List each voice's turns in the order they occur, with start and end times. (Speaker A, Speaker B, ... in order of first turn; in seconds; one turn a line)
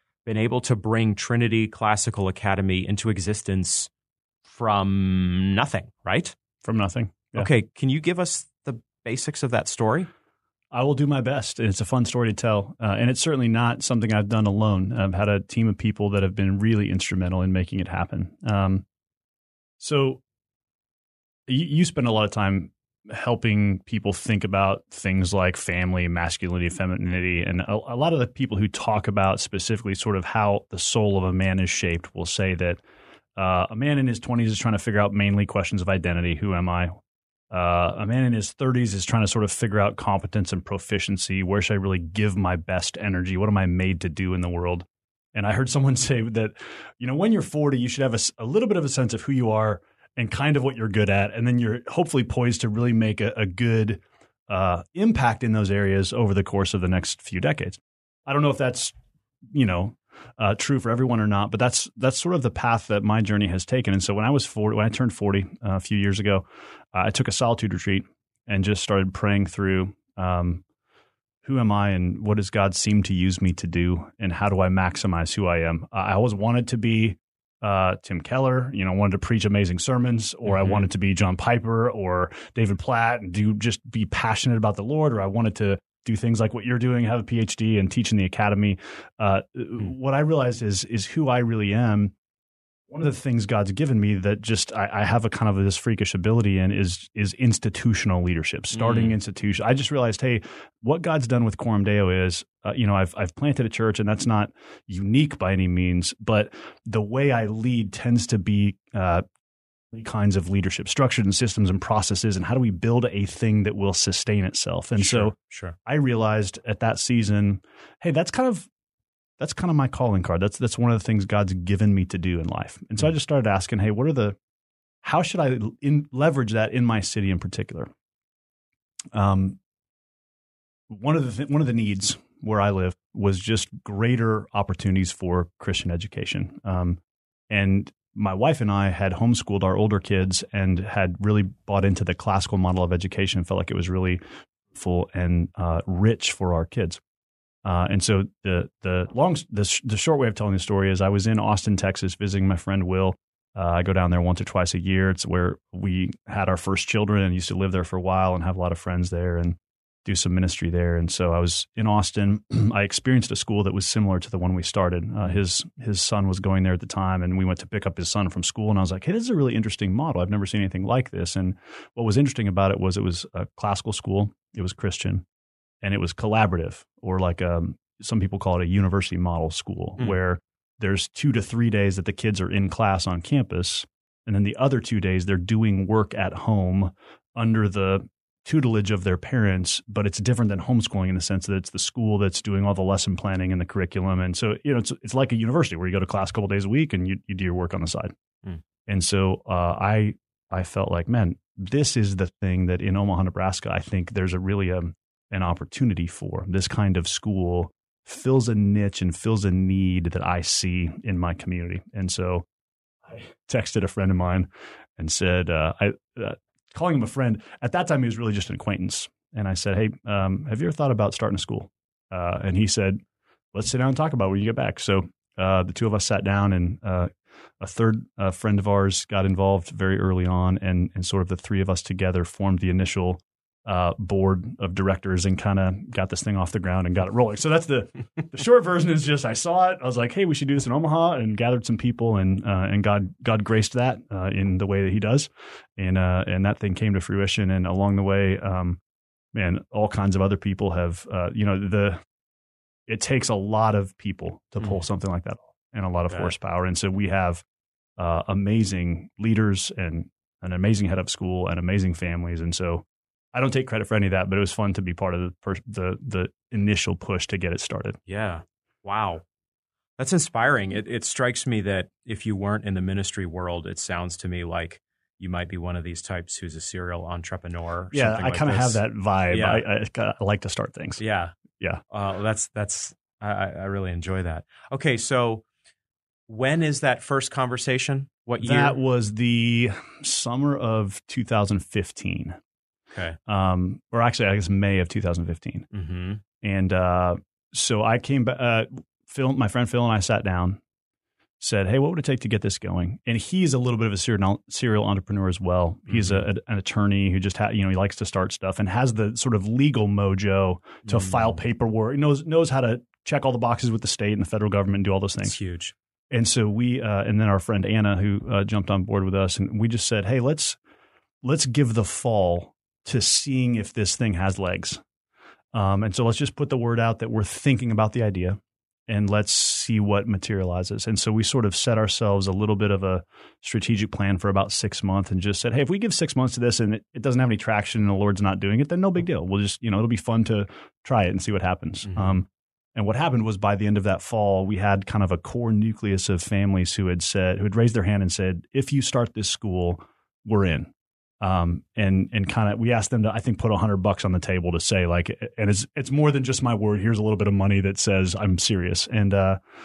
Speaker A: 0.2-3.9
Speaker A: 4.5-6.3
Speaker B: 6.6-7.5
Speaker A: 7.3-10.1
Speaker B: 10.7-18.9
Speaker B: 19.8-20.2
Speaker B: 21.5-32.8
Speaker B: 33.4-37.0
Speaker B: 37.5-59.0
Speaker B: 59.5-70.6
Speaker B: 71.4-92.1
Speaker A: 80.5-80.8
Speaker B: 92.9-109.2
Speaker A: 98.7-99.2
Speaker B: 109.9-115.3
Speaker A: 115.0-115.8
Speaker B: 115.9-118.7
Speaker B: 119.4-124.4
Speaker B: 125.0-127.9
Speaker B: 129.1-129.6
Speaker B: 130.9-144.2
Speaker B: 144.7-147.0
Speaker B: 147.6-175.2
Speaker B: 175.8-198.2
Speaker B: 198.9-212.4
Speaker B: 213.1-223.0
Speaker B: 223.5-248.8
Speaker B: 249.3-252.0
Speaker B: 252.9-257.4
Speaker A: 256.1-256.3
Speaker B: 258.0-268.0
Speaker A: 268.1-269.2
Speaker A: 270.0-279.6
Speaker B: 277.9-281.0
Speaker A: 281.0-281.4
Speaker A: 281.9-285.4
Speaker A: 286.3-288.8
Speaker B: 288.4-292.4
Speaker A: 292.9-293.2
Speaker B: 293.3-295.7
Speaker A: 295.7-296.2
Speaker B: 296.4-300.6
Speaker B: 301.4-315.4
Speaker A: 305.9-306.3
Speaker A: 310.8-311.4
Speaker A: 315.2-315.7
Speaker B: 316.1-320.6
Speaker B: 321.2-324.8
Speaker B: 325.5-359.4
Speaker A: 341.9-342.2